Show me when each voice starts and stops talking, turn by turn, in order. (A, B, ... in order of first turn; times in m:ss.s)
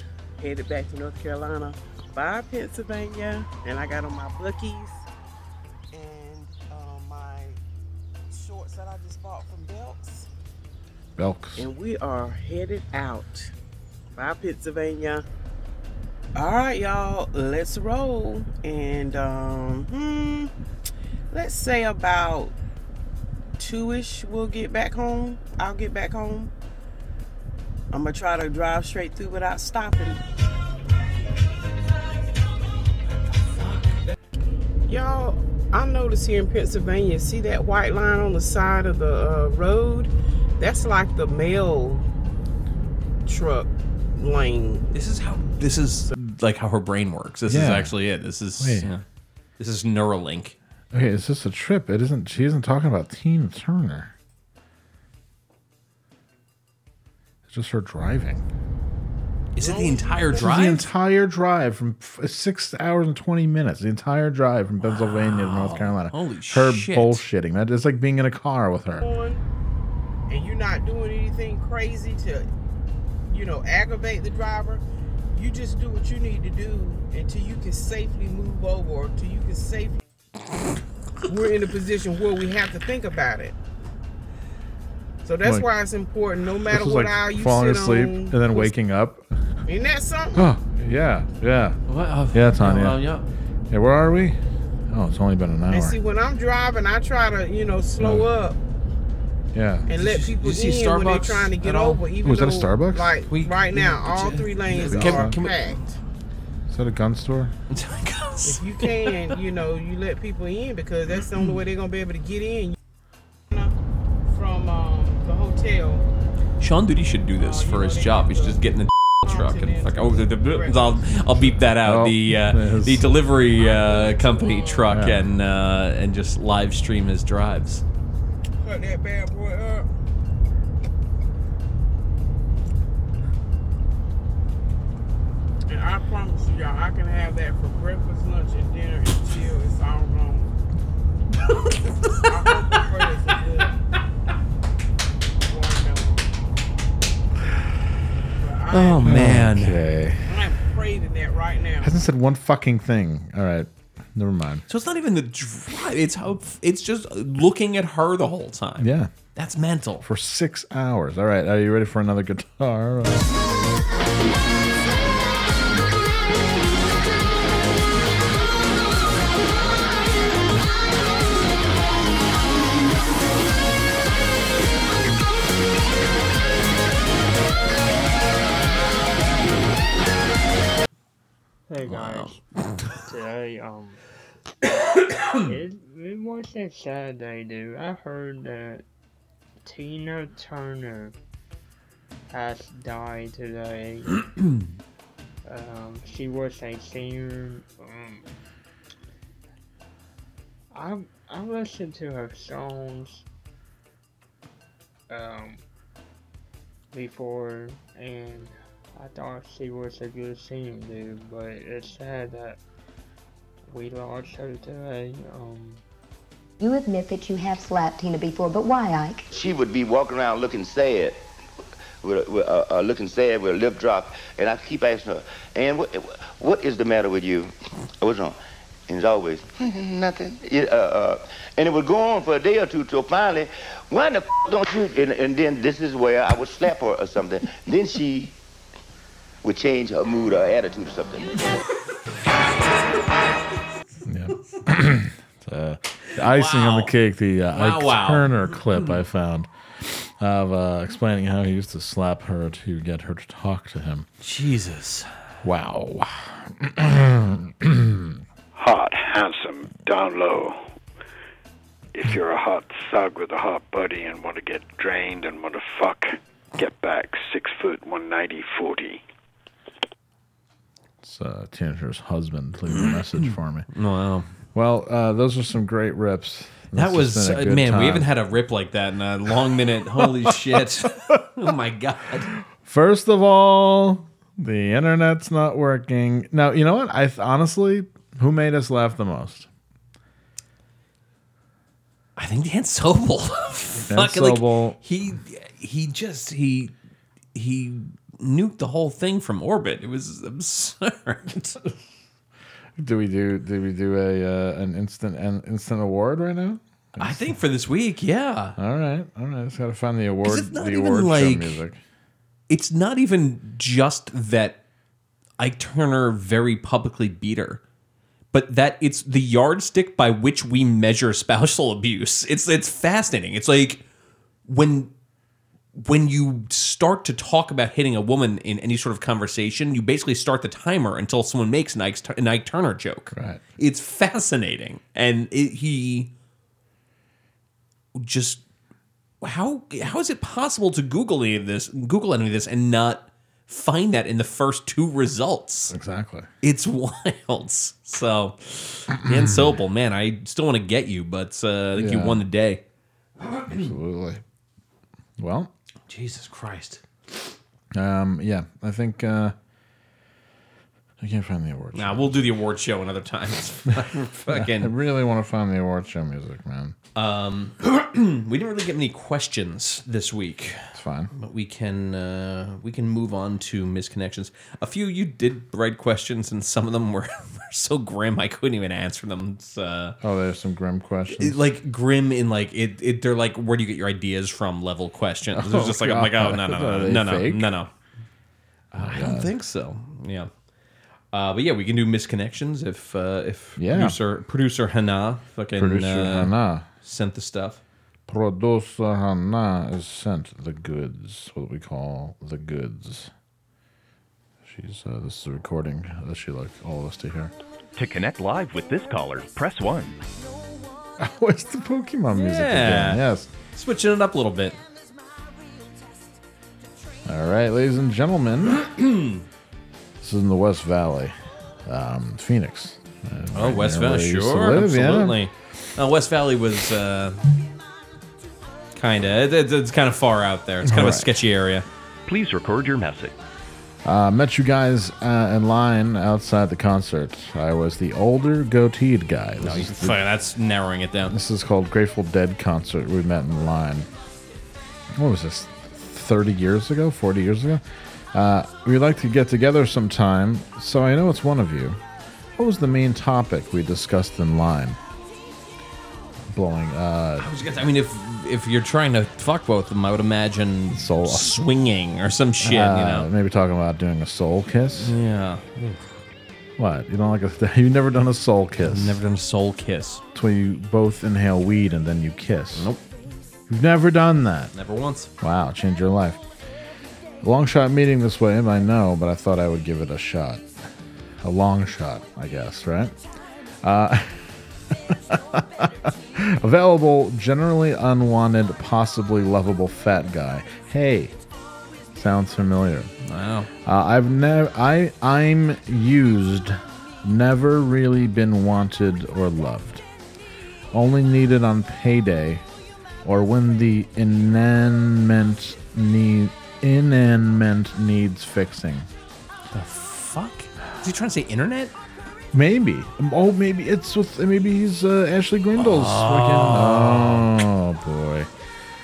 0:00.4-0:05.1 A
0:05.9-0:07.6 A
0:08.3-0:10.3 A
0:11.2-0:11.7 B
0:11.6-0:13.5 A
0:14.2-0:15.2 A
0:16.4-0:20.5 A
0:21.3-0:22.6 A
0:23.6-0:26.5 A
0:27.9-0:30.2 A
0:34.9-0:42.0 A
0:43.3-0:44.9 A
0:44.9-0:49.0 C
0:47.5-0:48.0 B
0:48.6-0:48.9 B
0:49.6-0:50.6 C
0:50.9-0:54.1 B
0:57.5-0:58.5 B
0:59.6-1:00.9 C
0:59.6-1:00.5 A
1:00.4-1:09.0 B
1:04.8-1:07.2 C
1:09.0-1:09.4 A
1:10.3-1:12.5 A
1:13.3-1:20.0 A
1:21.3-1:23.6 A
1:25.2-1:28.7 A
1:26.7-1:29.2 B
1:29.6-1:30.5 A
1:30.4-1:31.8 B
1:31.9-1:33.3 C
1:32.3-1:33.0 B
1:33.7-1:34.4 B
1:34.9-1:36.0 B
1:35.7-1:38.6 A
1:38.0-1:38.3 B
1:39.5-1:39.9 B
1:39.9-1:45.9 A
1:40.0-1:42.0 C
1:42.2-1:43.1 B
1:43.3-1:45.9 C
1:44.8-1:45.3 B
1:46.7-1:47.5 B
1:47.7-1:49.2 C
1:48.4-1:52.8 A
1:51.2-1:51.6 C
1:54.3-1:56.0 A
1:56.6-2:07.8 C
1:57.4-1:58.6 A
1:59.2-2:01.5 A
2:01.8-2:03.1 B
2:03.6-2:04.9 A
2:04.9-2:05.3 B
2:08.6-2:09.9 A
2:15.7-2:20.5 A
2:22.2-2:23.8 A
2:25.4-2:26.3 A
2:28.4-2:29.0 A
2:28.7-2:29.8 C
2:29.0-2:30.4 B
2:30.3-2:32.0 A
2:31.8-2:34.6 B
2:34.7-2:40.0 C
2:38.8-2:39.1 B
2:40.0-2:43.3 B
3:01.7-3:02.4 D
3:01.8-3:02.3 C
3:03.0-3:04.0 D
3:05.4-3:08.8 D
3:09.6-3:11.2 D
3:12.3-3:14.1 D
3:15.4-3:18.3 D
3:20.7-3:23.3 D
3:25.1-3:25.6 D
3:26.9-3:32.6 D
3:33.7-3:35.8 D
3:36.6-3:39.3 E
3:39.3-3:41.3 F
3:42.0-3:58.4 F
3:59.4-4:01.4 F
4:04.1-4:14.1 B
4:06.2-4:06.9 C
4:07.5-4:08.9 C
4:14.2-4:15.1 C
4:15.4-4:18.2 B
4:18.6-4:20.6 G
4:22.0-4:29.0 G
4:31.0-4:33.7 B
4:32.7-4:33.0 C
4:33.7-4:34.3 C
4:34.5-4:38.1 B
4:36.7-4:42.3 C
4:42.6-4:49.5 B
4:52.2-4:56.7 C
4:53.9-4:54.8 B
4:57.4-5:01.6 C
5:02.8-5:07.4 B
5:07.0-5:08.6 C
5:08.6-5:11.8 B
5:10.2-5:11.6 C
5:12.5-5:14.6 C
5:15.4-5:17.6 C
5:18.3-5:23.8 C
5:24.5-5:24.9 C
5:25.8-5:36.1 C
5:33.1-5:33.4 B
5:38.0-5:38.4 C
5:39.2-5:45.7 C
5:45.7-5:46.3 B
5:46.4-5:52.6 C
5:49.0-5:49.5 B
5:51.8-5:52.2 B
5:53.2-5:53.6 C
5:53.5-5:54.2 B
5:55.2-5:55.5 B
5:55.9-5:56.8 C
5:57.7-5:59.4 B
6:01.0-6:02.3 B
6:01.8-6:04.7 C
6:04.3-6:06.8 B
6:07.0-6:20.0 C
6:10.7-6:11.1 B
6:20.0-6:21.4 B
6:21.2-6:27.7 C
6:25.3-6:27.5 B
6:28.7-6:29.3 B
6:28.8-6:30.3 C
6:31.1-6:37.6 C
6:33.6-6:34.0 B
6:35.6-6:36.7 B
6:38.1-6:43.1 B
6:44.4-6:47.3 B
6:47.8-6:50.0 H
6:51.0-6:53.3 B
6:52.1-6:54.6 C
6:57.1-6:58.6 B
6:58.6-6:59.2 C
7:00.0-7:01.2 B
7:01.7-7:05.2 B
7:03.3-7:07.2 C
7:08.8-7:11.7 C
7:10.6-7:11.1 B
7:12.1-7:13.1 H
7:13.8-7:20.0 B
7:19.4-7:21.1 C
7:21.1-7:23.9 B
7:25.0-7:27.6 B
7:28.1-7:31.8 B
7:32.4-7:34.8 B
7:36.3-7:37.3 B
7:37.2-7:43.1 C
7:40.7-7:41.4 B
7:42.4-7:45.0 B
7:44.8-7:45.8 C
7:46.6-7:49.0 B
7:48.6-7:50.0 C
7:50.1-7:52.7 B
7:52.6-7:52.8 C
7:53.5-7:54.5 B
7:54.5-7:55.1 C
7:55.2-7:56.2 B
7:57.2-8:00.5 B
8:01.2-8:03.0 B
8:03.6-8:11.2 B
8:12.0-8:12.9 B
8:13.0-8:13.5 C
8:13.6-8:19.8 B
8:20.7-8:22.4 B
8:23.0-8:28.9 B
8:29.5-8:31.7 C
8:32.3-8:38.3 B
8:35.6-8:37.3 C